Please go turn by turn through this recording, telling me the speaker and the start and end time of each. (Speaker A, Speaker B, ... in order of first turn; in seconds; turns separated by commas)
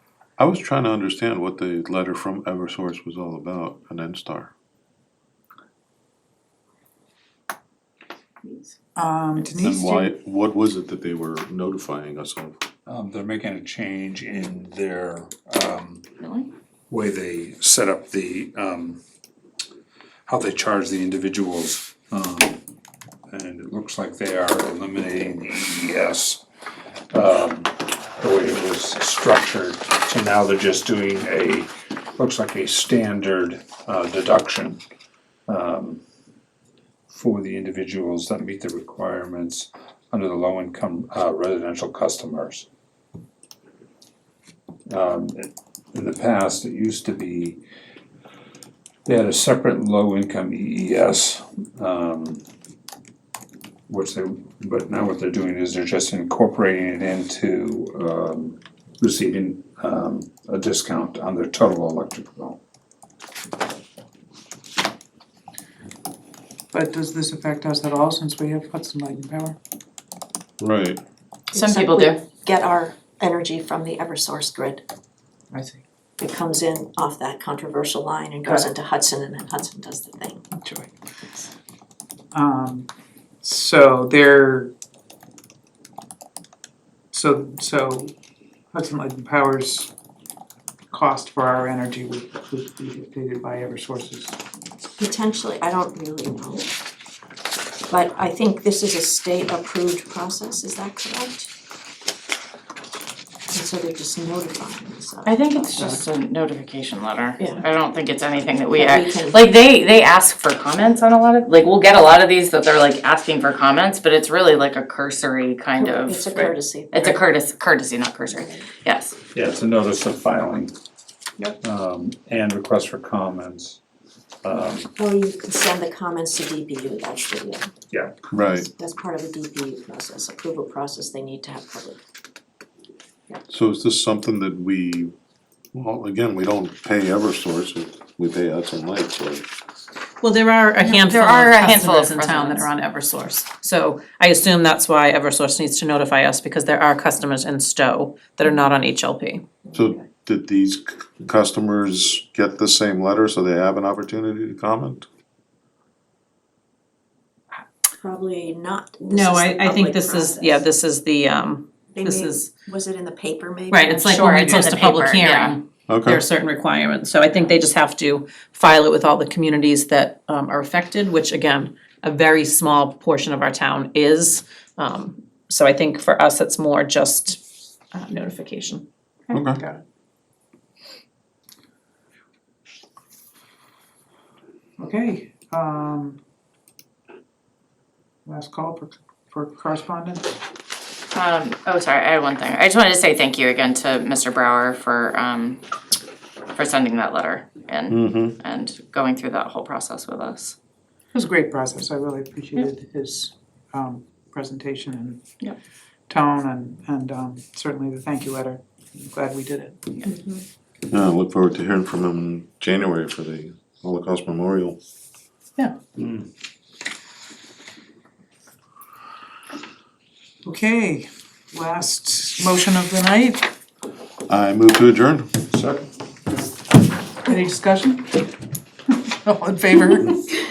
Speaker A: 0.4-4.5, Speaker B: 8.4-8.8, Speaker C: 8.9-10.1, Speaker A: 9.6-12.6, Speaker D: 12.9-16.1, Speaker B: 16.2-16.5, Speaker D: 16.9-19.0, Speaker D: 20.3-22.6, Speaker D: 23.3-26.4, Speaker D: 27.1-34.8, Speaker D: 35.5-36.0, Speaker D: 37.1-42.7, Speaker D: 44.9-47.6, Speaker D: 49.0-52.4, Speaker D: 53.9-62.6, Speaker C: 66.7-69.6, Speaker A: 70.6-71.0, Speaker E: 71.5-74.8, Speaker B: 71.5-72.2, Speaker C: 75.5-75.8, Speaker E: 76.2-80.4, Speaker C: 80.5-80.9, Speaker C: 82.3-82.9, Speaker C: 83.4-84.7, Speaker C: 87.1-88.1, Speaker C: 88.7-89.9, Speaker C: 90.9-94.4, Speaker E: 95.0-96.7, Speaker E: 97.9-101.5, Speaker E: 103.5-105.9, Speaker B: 105.2-119.2, Speaker E: 107.4-107.7, Speaker E: 108.7-109.5, Speaker E: 115.8-117.2, Speaker E: 118.3-118.7, Speaker D: 119.3-120.8, Speaker D: 121.6-123.8, Speaker D: 124.4-124.9, Speaker E: 125.0-127.7, Speaker D: 127.9-128.2, Speaker A: 128.3-128.7, Speaker E: 128.5-132.0, Speaker A: 133.5-135.1, Speaker A: 135.7-139.4, Speaker F: 140.2-149.4, Speaker B: 140.8-142.7, Speaker A: 149.7-155.1, Speaker E: 158.0-160.7, Speaker F: 159.1-162.5, Speaker E: 161.9-164.7, Speaker F: 163.7-177.4, Speaker B: 164.1-165.6, Speaker A: 165.9-166.2, Speaker F: 177.9-178.8, Speaker A: 179.3-179.6, Speaker C: 179.6-179.8, Speaker C: 184.8-186.2, Speaker C: 188.3-190.3, Speaker B: 191.1-195.6, Speaker B: 196.5-200.6, Speaker A: 197.9-198.4, Speaker C: 201.1-205.2, Speaker C: 206.1-209.8, Speaker E: 210.0-210.4, Speaker A: 210.9-214.8, Speaker D: 216.0-216.3, Speaker C: 220.4-223.5, Speaker A: 224.3-225.3, Speaker D: 225.5-225.9, Speaker C: 227.2-228.2, Speaker C: 229.0-230.3